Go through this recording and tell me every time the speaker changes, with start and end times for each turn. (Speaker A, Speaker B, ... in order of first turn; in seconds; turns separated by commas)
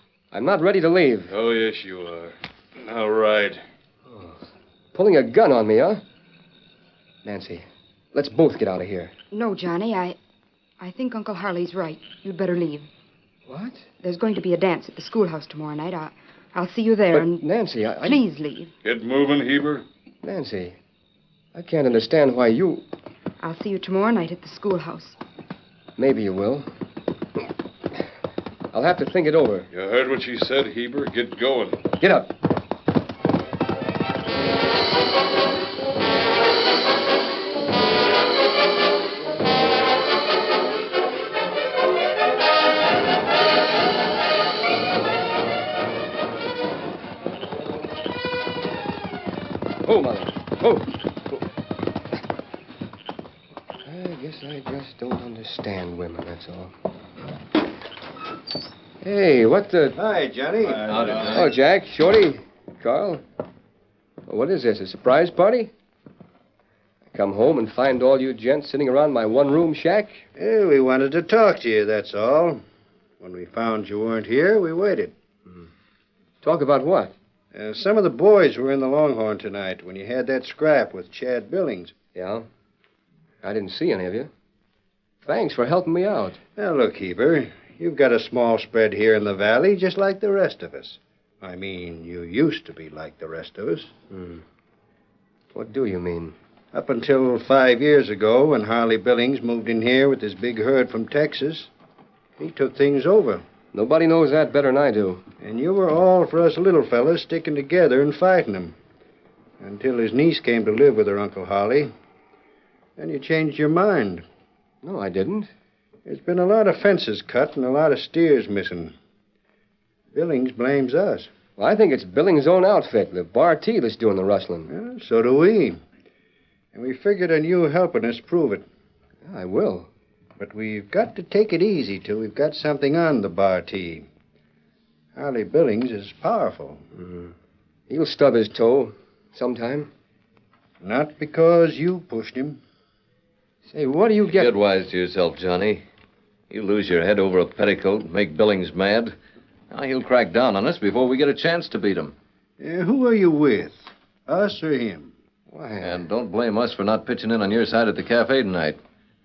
Speaker A: 0.3-1.3, Speaker B: 1.3-3.6, Speaker A: 4.1-4.4, Speaker A: 4.9-6.0, Speaker A: 7.2-9.1, Speaker C: 9.3-10.2, Speaker C: 10.8-12.9, Speaker A: 13.5-13.8, Speaker C: 14.0-17.4, Speaker A: 17.1-18.2, Speaker C: 18.0-18.7, Speaker B: 18.8-19.8, Speaker A: 20.2-20.8, Speaker A: 21.5-22.9, Speaker C: 23.4-25.2, Speaker A: 26.0-26.7, Speaker A: 28.7-29.7, Speaker B: 29.7-31.8, Speaker A: 32.0-32.3, Speaker A: 49.8-51.4, Speaker A: 53.8-56.7, Speaker A: 59.0-60.0, Speaker D: 59.9-61.3, Speaker E: 60.8-61.5, Speaker A: 61.3-63.2, Speaker A: 64.2-65.7, Speaker A: 67.1-70.2, Speaker D: 70.3-72.6, Speaker D: 73.2-75.1, Speaker A: 76.4-77.1, Speaker D: 77.5-81.9, Speaker A: 82.1-82.5, Speaker A: 83.4-84.3, Speaker A: 85.2-86.4, Speaker D: 86.6-93.9, Speaker A: 94.1-94.4, Speaker A: 95.5-96.3, Speaker D: 96.7-101.7, Speaker D: 102.4-103.4, Speaker A: 103.7-105.2, Speaker D: 105.4-108.8, Speaker D: 109.6-111.9, Speaker D: 113.0-114.2, Speaker A: 114.8-115.5, Speaker D: 116.0-118.9, Speaker D: 120.1-121.3, Speaker A: 121.6-124.7, Speaker D: 124.7-125.8, Speaker D: 126.7-128.6, Speaker A: 129.2-129.9, Speaker D: 130.4-134.1, Speaker D: 135.1-136.8, Speaker A: 136.9-137.3, Speaker A: 137.9-139.9, Speaker D: 140.8-142.6, Speaker A: 143.7-144.5, Speaker E: 144.3-145.8, Speaker E: 146.5-149.2, Speaker E: 149.7-152.1, Speaker D: 152.6-155.1, Speaker A: 155.5-156.0, Speaker E: 155.8-158.8